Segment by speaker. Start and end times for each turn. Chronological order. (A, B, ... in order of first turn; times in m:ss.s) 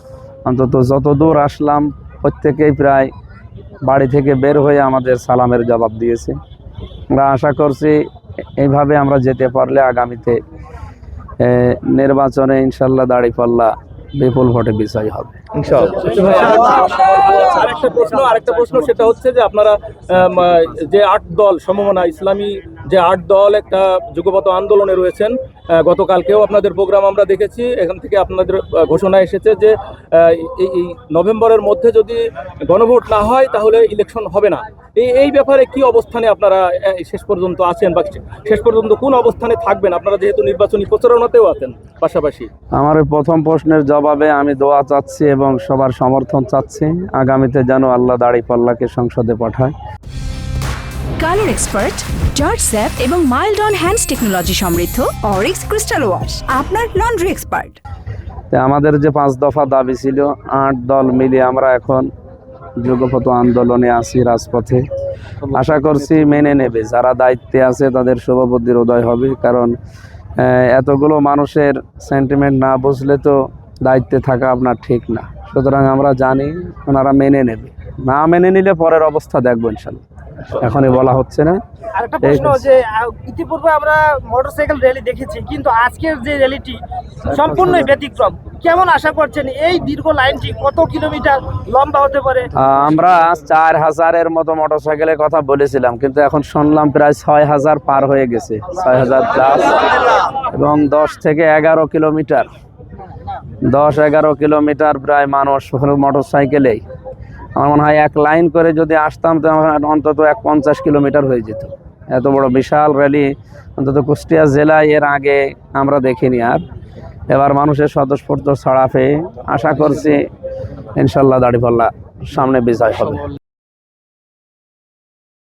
0:00.4-0:03.1 A
0:03.8-0:06.4 A
0:07.1-0:08.0 A
0:08.6-0:10.4 A
0:11.4-0:15.4 A
0:15.7-0:42.5 B
0:42.7-0:49.7 A
0:51.2-0:57.8 C
0:58.5-1:02.1 A
1:02.8-1:04.8 A
1:05.5-1:09.8 A
1:10.4-1:20.0 A
1:20.5-1:21.6 A
1:22.0-1:32.5 D
1:22.2-1:22.6 A
1:27.2-1:27.9 A
1:32.6-1:42.5 A
1:43.6-1:46.8 A
1:47.6-1:56.6 A
1:57.3-2:00.3 A
2:01.0-2:03.2 A